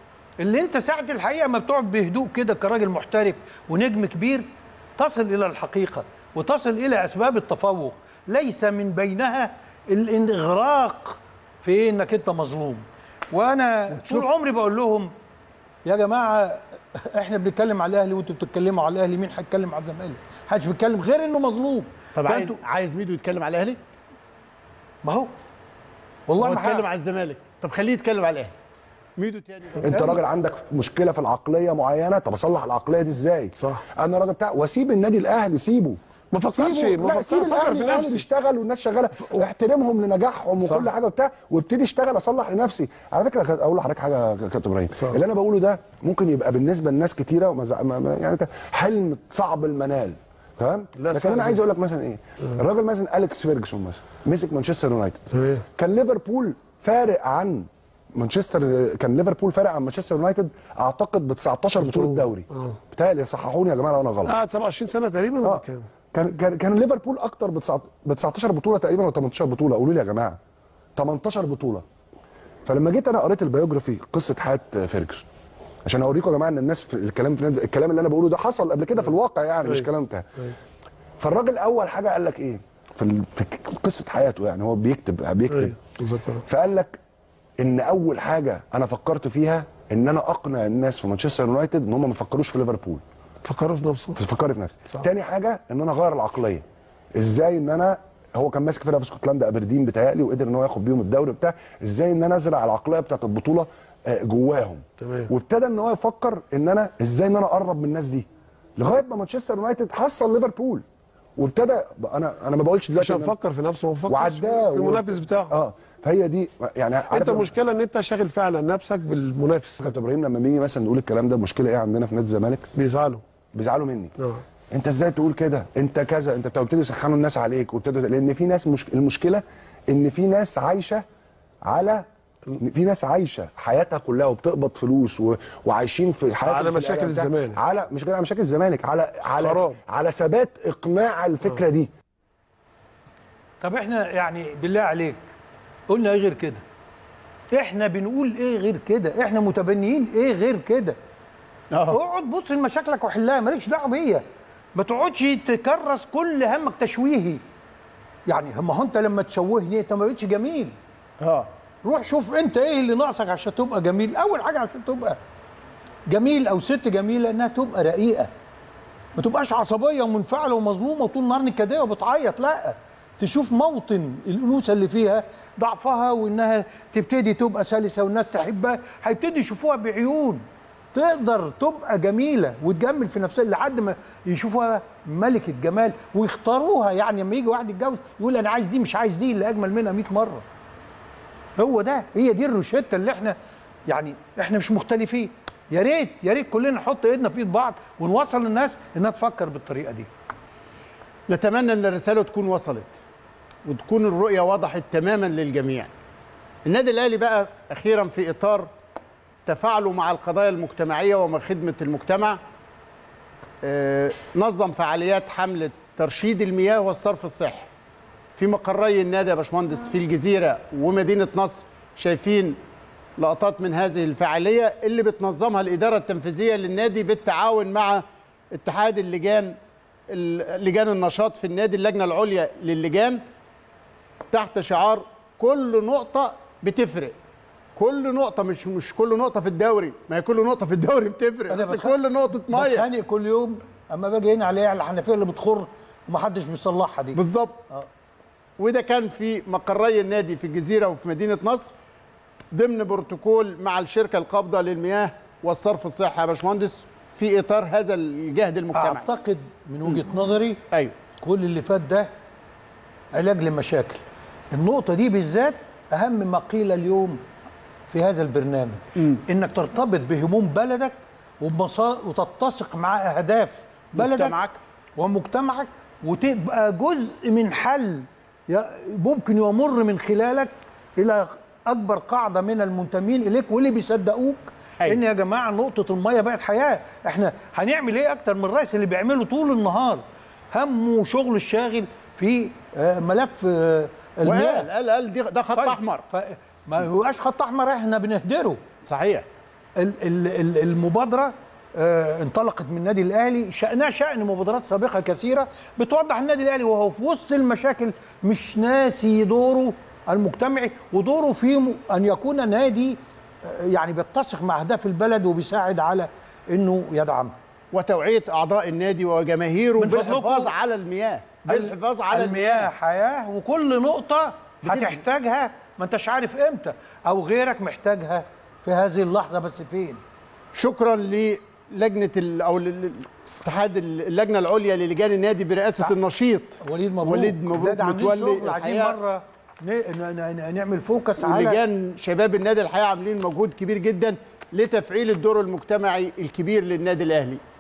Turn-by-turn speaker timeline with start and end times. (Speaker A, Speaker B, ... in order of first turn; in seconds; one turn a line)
Speaker A: 0.4-15.1
Speaker B: 13.9-14.3
Speaker A: 15.9-22.6
Speaker B: 22.1-23.8
Speaker A: 25.0-25.3
Speaker A: 26.3-26.9
Speaker B: 26.4-28.6
Speaker B: 29.2-30.2
Speaker C: 29.8-55.2
Speaker D: 33.6-33.9
Speaker D: 36.3-38.3
Speaker D: 39.1-39.5
Speaker D: 40.6-40.9
Speaker D: 45.0-45.2
Speaker D: 51.0-51.6
Speaker D: 55.3-55.6
Speaker C: 55.8-64.4
Speaker D: 61.8-62.8
Speaker D: 64.2-65.9
Speaker C: 65.4-70.4
Speaker C: 71.0-71.8
Speaker C: 72.7-75.3
Speaker C: 75.9-80.2
Speaker D: 79.6-80.5
Speaker C: 81.2-85.8
Speaker D: 85.5-86.4
Speaker C: 86.5-87.0
Speaker C: 87.6-93.0
Speaker D: 93.4-94.2
Speaker C: 94.2-96.7
Speaker C: 97.2-108.3
Speaker D: 105.0-105.3
Speaker C: 108.8-110.8
Speaker C: 111.4-113.3
Speaker D: 113.0-115.5
Speaker C: 114.1-117.5
Speaker D: 117.1-119.9
Speaker C: 119.8-122.7
Speaker D: 122.8-123.2
Speaker C: 123.5-124.1
Speaker D: 124.2-124.4
Speaker C: 124.7-131.1
Speaker C: 131.7-132.1
Speaker C: 132.6-141.9
Speaker D: 136.4-137.6
Speaker D: 139.3-139.8
Speaker A: 143.6-145.2
Speaker A: 145.9-146.6
Speaker A: 147.5-151.0
Speaker B: 151.7-152.0
Speaker A: 151.9-157.4
Speaker A: 158.3-160.8
Speaker B: 161.2-161.5
Speaker A: 161.8-165.2
Speaker A: 166.1-168.3
Speaker A: 169.2-190.4
Speaker A: 191.6-193.4
Speaker A: 193.9-200.1
Speaker B: 201.3-203.0
Speaker B: 203.7-205.9
Speaker B: 206.7-208.7
Speaker B: 209.5-212.4
Speaker B: 213.6-217.7
Speaker B: 218.4-222.6
Speaker B: 223.2-233.2
Speaker B: 234.3-237.2
Speaker B: 237.8-242.9
Speaker A: 241.5-242.0
Speaker A: 242.5-247.2
Speaker B: 247.2-247.6
Speaker B: 248.6-251.7
Speaker B: 252.5-259.1
Speaker A: 258.7-260.6
Speaker A: 261.2-262.1
Speaker A: 263.1-267.2
Speaker A: 267.9-274.4
Speaker B: 273.9-274.6
Speaker A: 275.0-294.7
Speaker B: 294.2-296.0
Speaker A: 295.6-298.6
Speaker B: 298.9-299.3
Speaker A: 299.8-317.4
Speaker B: 317.7-322.7
Speaker A: 319.8-320.5
Speaker A: 321.5-330.0
Speaker B: 324.6-325.0
Speaker B: 330.5-339.0
Speaker A: 336.6-341.6
Speaker B: 341.2-347.4